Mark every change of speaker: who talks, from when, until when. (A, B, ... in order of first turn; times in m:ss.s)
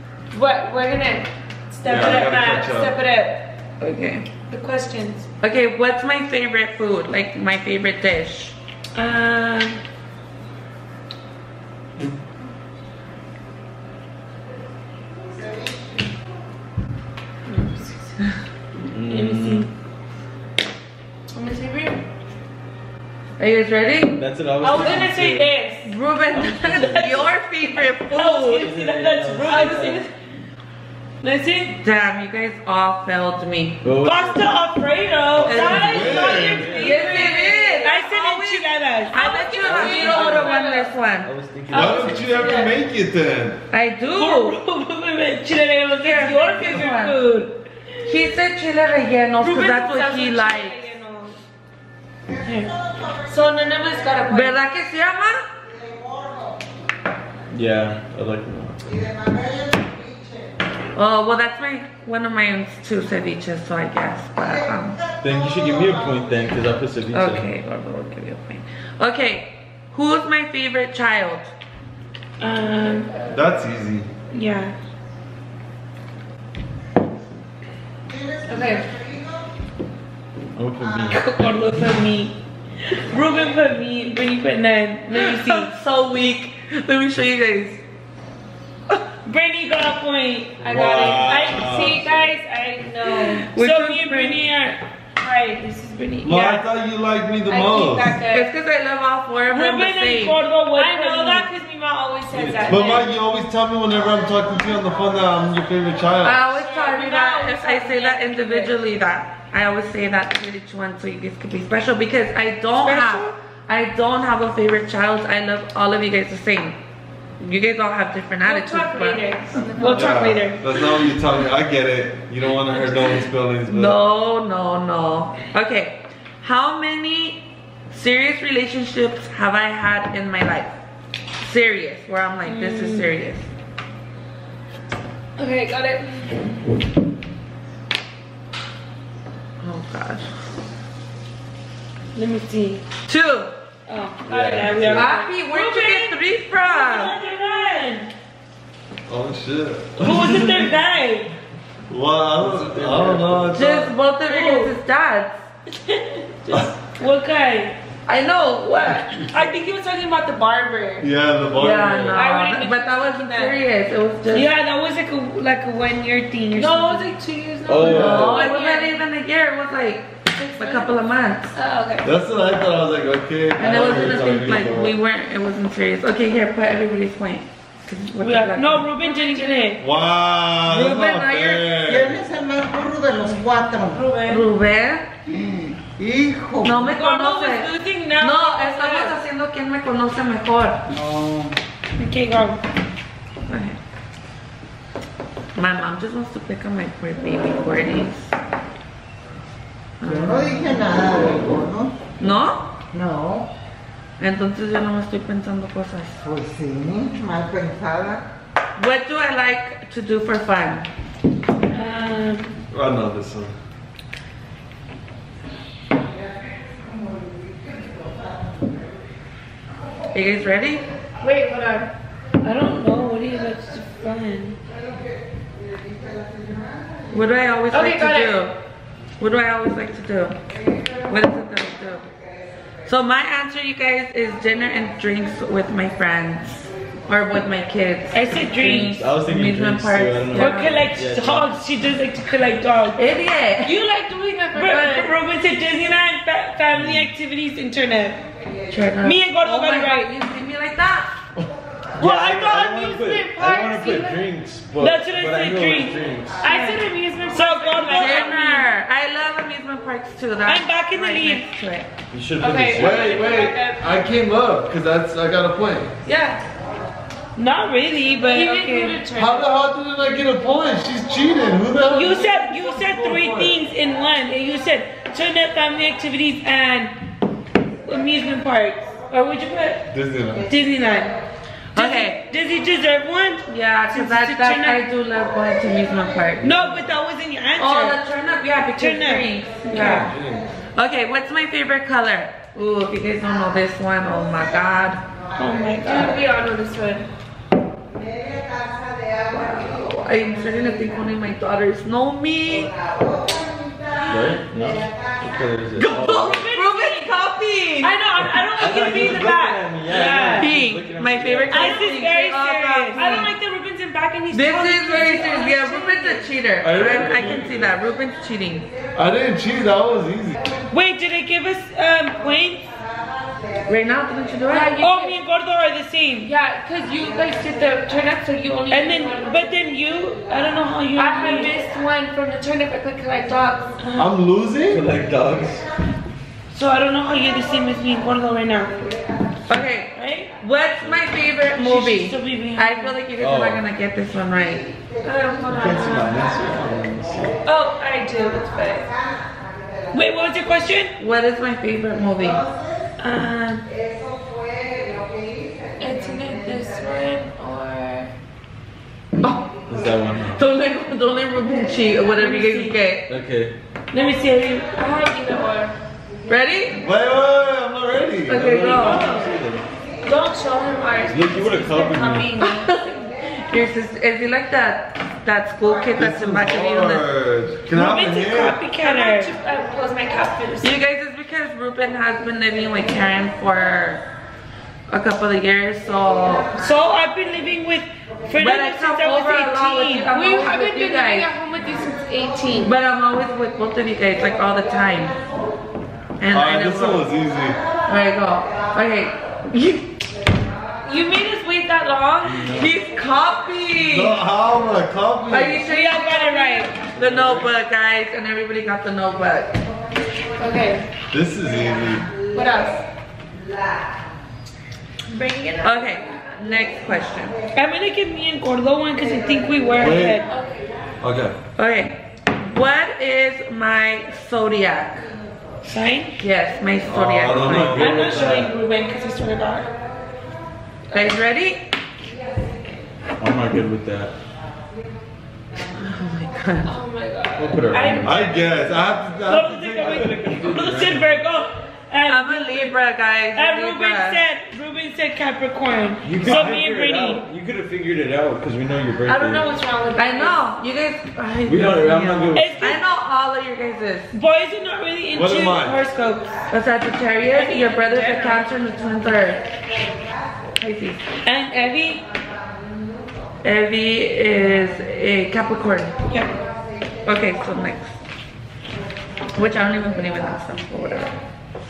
0:00.3-0:03.5 A
0:01.8-0:02.9 B
0:03.8-0:04.3 C
0:04.5-0:05.3 A
0:05.4-0:08.6 C
0:08.9-0:09.8 D
0:17.5-0:17.9 A
0:18.8-0:19.7 E
0:19.1-0:19.7 D
0:21.3-0:22.0 A
0:23.4-0:24.2 C
0:24.2-0:25.5 E
0:24.6-0:25.9 A
0:25.8-0:28.7 C
0:26.3-0:27.3 E
0:28.1-0:30.1 D
0:28.5-0:30.1 E
0:29.4-0:30.0 A
0:29.4-0:29.8 C
0:31.2-0:31.8 D
0:31.8-0:33.8 C
0:33.8-0:34.5 E
0:34.0-0:39.2 D
0:35.3-0:37.3 E
0:35.4-0:36.0 C
0:35.4-0:37.9 A
0:35.7-0:36.7 B
0:36.8-0:41.3 C
0:39.1-0:41.0 A
0:39.6-0:40.6 E
0:41.2-0:42.5 E
0:41.7-0:42.7 A
0:41.7-0:43.6 B
0:43.7-0:44.5 C
0:44.1-0:47.5 D
0:46.0-0:47.2 C
0:48.0-0:50.8 C
0:49.4-0:51.3 A
0:52.4-0:52.8 D
0:53.3-0:54.6 A
0:54.3-0:55.4 C
0:57.5-0:58.8 E
0:59.0-1:00.1 F
1:00.9-1:05.0 C
1:05.2-1:07.4 E
1:05.2-1:05.7 F
1:07.1-1:11.5 C
1:12.4-1:13.1 D
1:12.8-1:13.4 A
1:13.3-1:14.1 B
1:14.3-1:14.7 D
1:18.1-1:19.3 F
1:18.5-1:18.9 A
1:20.5-1:21.3 E
1:21.1-1:25.7 D
1:25.1-1:27.8 C
1:29.2-1:31.4 D
1:30.6-1:33.4 A
1:30.6-1:32.1 B
1:33.0-1:34.4 C
1:33.5-1:34.8 D
1:35.2-1:36.6 A
1:36.1-1:36.6 D
1:36.2-1:38.2 B
1:37.5-1:38.5 A
1:38.3-1:40.4 C
1:39.5-1:41.5 D
1:40.7-1:43.1 A
1:42.6-1:46.4 B
1:46.2-1:56.8 C
1:46.4-1:48.7 A
1:52.8-1:53.3 D
1:57.4-2:00.0 C
1:58.4-2:00.4 A
1:59.8-2:00.8 D
1:59.9-2:04.0 B
2:03.7-2:10.7 C
2:11.4-2:13.5 C
2:12.4-2:13.1 D
2:15.4-2:16.4 A
2:19.6-2:20.2 C
2:22.1-2:22.8 D
2:23.1-2:23.5 C
2:23.9-2:28.1 D
2:24.3-2:25.1 E
2:24.9-2:27.2 C
2:29.1-2:30.8 B
2:30.0-2:31.3 D
2:31.9-2:33.9 B
2:32.4-2:33.6 E
2:33.5-2:35.4 C
2:34.2-2:34.7 D
2:35.7-2:37.8 D
2:38.1-2:39.3 C
2:39.2-2:41.1 A
2:41.0-2:42.2 B
2:41.6-2:44.5 C
2:42.1-2:43.6 A
2:44.3-2:47.0 D
2:46.6-2:49.0 A
2:47.6-2:48.5 E
2:47.8-2:51.5 C
2:50.3-2:50.9 A
2:51.5-2:52.1 A
2:52.0-2:54.8 B
2:53.6-2:58.9 C
2:53.6-2:55.0 E
2:58.2-2:59.8 D
2:59.0-2:59.8 A
2:59.8-3:02.2 B
3:00.6-3:01.7 C
3:01.8-3:04.0 F
3:03.9-3:04.3 D
3:04.1-3:04.4 A
3:04.2-3:05.1 C
3:05.3-3:06.9 F
3:06.6-3:10.8 C
3:06.9-3:08.2 D
3:08.1-3:09.1 A
3:10.9-3:11.6 F
3:12.0-3:12.6 D
3:13.5-3:13.8 C
3:15.5-3:18.3 C
3:20.0-3:20.6 C
3:20.0-3:21.9 F
3:22.2-3:22.7 C
3:22.9-3:23.5 F
3:24.2-3:26.2 C
3:26.2-3:28.2 F
3:28.8-3:30.9 C
3:31.7-3:32.6 D
3:32.7-3:33.5 B
3:40.1-3:40.8 C
3:41.2-3:41.9 A
3:42.4-3:44.6 D
3:47.1-3:48.6 C
3:47.7-3:48.3 A
3:49.2-3:50.4 C
3:51.1-3:52.1 C
3:52.8-4:00.9 C
3:58.1-3:59.0 D
3:58.6-4:01.5 E
4:00.3-4:03.0 D
4:03.0-4:03.8 C
4:03.6-4:05.1 A
4:04.5-4:08.2 D
4:06.7-4:07.1 E
4:08.7-4:11.1 C
4:09.0-4:10.1 D
4:12.0-4:14.2 A
4:12.0-4:16.5 E
4:14.8-4:18.6 D
4:16.4-4:18.6 A
4:17.9-4:21.9 C
4:20.4-4:21.5 D
4:22.1-4:23.1 E
4:22.4-4:24.0 A
4:22.7-4:25.9 B
4:26.0-4:26.4 A
4:27.4-4:29.0 D
4:28.3-4:29.5 A
4:29.1-4:33.5 B
4:31.8-4:36.9 D
4:37.8-4:39.8 D
4:39.9-4:40.4 B
4:40.5-4:41.2 D
4:41.7-4:42.2 C
4:41.7-4:44.8 D
4:43.5-4:46.7 C
4:46.4-4:48.0 D
4:47.6-4:50.1 C
4:48.8-4:50.1 D
4:49.7-4:50.4 B
4:50.7-4:55.0 C
4:55.4-4:56.2 D
4:55.8-4:57.0 A
4:59.3-5:02.7 C
5:04.1-5:06.5 E
5:05.8-5:08.0 C
5:06.3-5:07.1 D
5:07.8-5:10.4 A
5:08.2-5:10.5 D
5:08.5-5:11.7 E
5:10.3-5:13.3 C
5:11.5-5:11.9 A
5:11.5-5:13.3 D
5:12.9-5:16.2 A
5:14.3-5:18.7 C
5:16.6-5:17.7 B
5:19.0-5:20.4 B
5:20.7-5:22.6 D
5:23.7-5:24.8 C
5:24.5-5:25.2 A
5:24.8-5:26.3 D
5:26.2-5:29.4 A
5:28.7-5:31.5 D
5:31.0-5:33.7 A
5:33.8-5:34.1 D
5:34.0-5:34.8 B
5:34.7-5:35.6 E
5:36.5-5:38.9 D
5:39.5-5:44.7 C
5:39.9-5:40.3 D
5:41.5-5:43.0 D
5:43.2-5:43.6 E
5:45.0-5:46.3 A
5:45.5-5:47.4 E
5:47.4-5:48.9 A
5:49.9-5:50.9 D
5:51.0-5:52.4 C
5:53.0-5:53.7 D
5:55.8-5:58.1 A
5:59.7-6:00.4 E
6:00.3-6:03.1 C
6:02.1-6:02.8 D
6:03.1-6:03.6 E
6:03.9-6:04.7 D
6:04.7-6:05.7 A
6:06.3-6:06.8 C
6:06.7-6:08.5 B
6:08.3-6:09.2 C
6:08.3-6:09.6 E
6:08.7-6:09.2 A
6:10.0-6:12.8 A
6:11.1-6:12.3 E
6:12.4-6:17.0 C
6:16.0-6:18.6 B
6:17.7-6:19.3 D
6:18.8-6:20.8 A
6:20.6-6:24.0 C
6:24.9-6:26.5 C
6:26.6-6:30.1 D
6:28.4-6:31.3 C
6:30.1-6:32.7 A
6:32.6-6:35.2 C
6:36.2-6:37.0 C
6:36.3-6:37.6 B
6:37.9-6:39.9 C
6:40.8-6:42.6 A
6:42.4-6:44.2 C
6:43.8-6:45.6 B
6:45.3-6:49.5 C
6:45.6-6:46.7 D
6:47.0-6:47.4 E
6:47.0-6:47.4 B
6:50.4-6:50.9 A
6:51.1-6:52.1 B
6:52.3-6:52.8 A
6:55.1-6:56.0 A
6:55.6-6:57.4 C
6:57.5-7:00.3 D
6:59.8-7:00.2 B
7:00.2-7:00.7 A
7:01.0-7:01.4 B
7:01.6-7:05.1 C
7:05.6-7:06.2 D
7:06.2-7:07.9 C
7:06.9-7:08.0 B
7:07.1-7:08.5 E
7:07.6-7:09.7 D
7:10.9-7:11.6 C
7:13.2-7:14.1 E
7:15.8-7:16.7 C
7:16.6-7:18.9 A
7:17.4-7:18.2 E
7:18.0-7:20.2 B
7:19.2-7:22.8 D
7:19.8-7:21.2 E
7:22.1-7:24.2 C
7:23.3-7:27.2 D
7:26.0-7:29.6 E
7:29.1-7:30.4 A
7:30.0-7:34.1 C
7:31.4-7:32.6 E
7:32.3-7:32.8 D
7:34.1-7:36.3 D
7:35.1-7:35.8 B
7:36.5-7:39.4 C
7:37.3-7:38.5 A
7:40.6-7:41.0 C
7:41.2-7:42.0 D
7:43.4-7:45.9 C
7:46.1-7:46.3 D
7:47.0-7:47.9 C
7:49.3-7:51.2 C